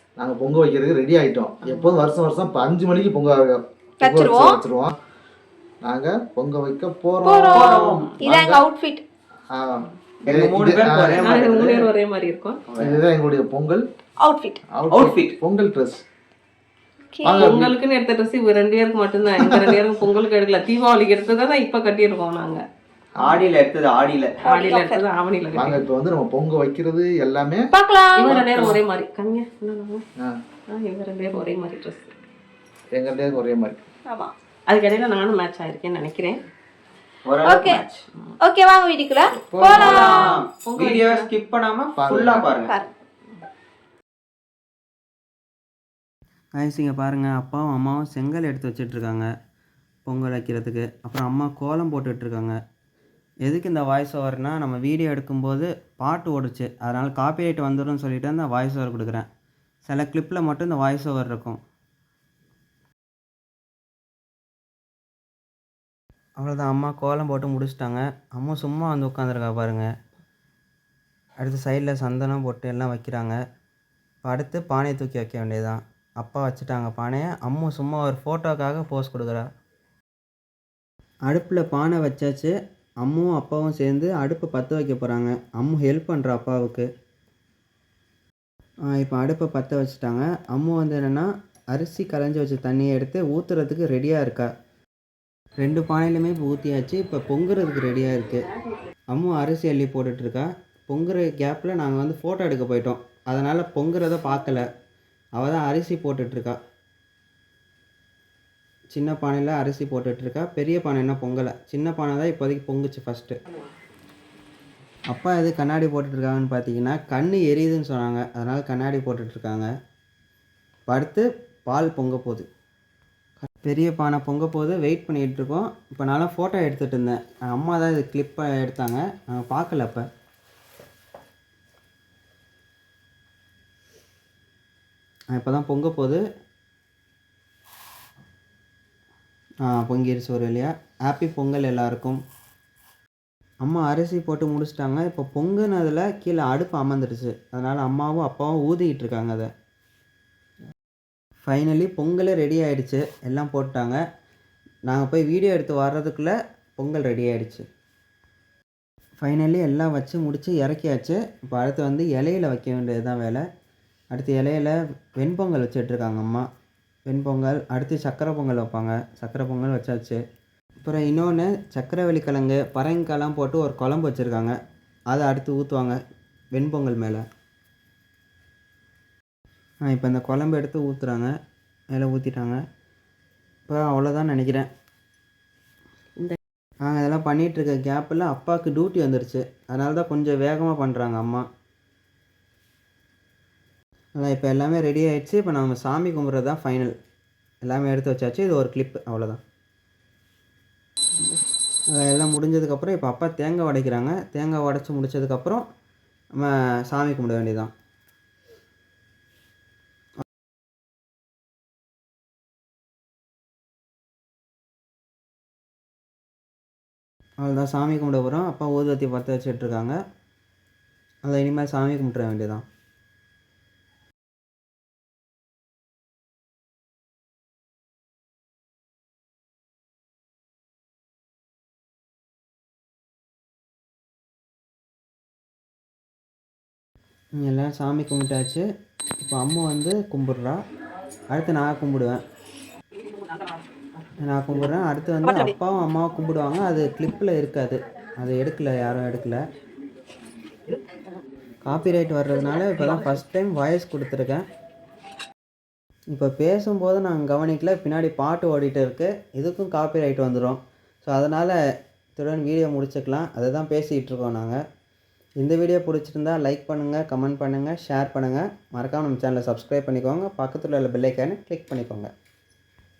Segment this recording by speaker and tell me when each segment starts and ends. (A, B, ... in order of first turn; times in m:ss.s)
0:00.2-0:05.0 A
0:04.0-0:04.6 B
0:05.8-0:08.6 A
0:07.2-0:09.0 B
0:07.5-0:08.1 C
0:07.8-0:08.2 D
0:09.5-0:11.9 A
0:10.2-0:11.3 C
0:11.2-0:12.6 D
0:12.8-0:13.8 A
0:14.2-0:14.6 B
0:14.7-0:16.0 A
0:14.9-0:15.3 C
0:17.1-0:17.5 B
0:17.2-0:17.7 A
0:17.4-0:22.6 D
0:19.4-0:19.7 A
0:23.2-0:24.4 C
0:24.4-0:25.0 B
0:24.4-0:25.8 D
0:25.5-0:27.7 A
0:27.7-0:28.3 B
0:28.2-0:30.0 D
0:28.3-0:28.8 A
0:30.7-0:32.1 D
0:32.9-0:33.8 A
0:34.1-0:34.3 B
0:34.7-0:36.4 D
0:37.4-0:37.8 C
0:37.4-0:37.8 B
0:38.4-0:40.4 B
0:39.4-0:40.1 A
0:39.8-0:40.3 E
0:39.8-0:40.3 C
0:40.6-0:41.3 D
0:40.8-0:41.4 E
0:41.0-0:42.7 C
0:42.0-0:42.6 A
0:42.7-0:42.9 B
0:46.6-0:49.3 E
0:50.1-0:52.6 E
0:53.4-0:59.3 E
0:59.8-1:01.6 E
1:06.4-1:09.9 E
1:11.4-1:13.4 E
1:14.2-1:19.5 E
1:21.3-1:26.9 E
1:28.9-1:34.5 E
1:35.6-1:38.5 E
1:39.1-1:44.7 E
1:45.4-1:46.6 E
1:48.9-1:53.4 E
1:55.1-1:59.7 E
2:00.9-2:02.5 E
2:03.4-2:10.1 E
2:15.3-2:16.2 E
2:19.6-2:22.2 E
2:23.6-2:29.5 E
2:31.4-2:34.0 E
2:34.9-2:37.6 E
2:39.2-2:43.4 E
2:44.1-2:46.5 E
2:47.1-2:50.2 E
2:50.8-2:54.5 E
2:55.1-2:56.0 E
2:56.5-2:57.2 E
2:59.9-3:01.3 E
3:01.9-3:02.6 E
3:03.7-3:04.7 E
3:06.8-3:11.4 E
3:14.2-3:16.9 E
3:17.6-3:19.4 E
3:21.9-3:25.6 E
3:26.4-3:27.7 E
3:37.4-3:40.0 E
3:41.2-3:42.6 E
3:57.4-3:58.6 E
3:59.2-4:00.6 E
4:01.3-4:02.2 E
4:04.2-4:09.4 E
4:11.6-4:14.4 E
4:16.1-4:21.6 E
4:22.2-4:24.6 E
4:25.4-4:32.1 E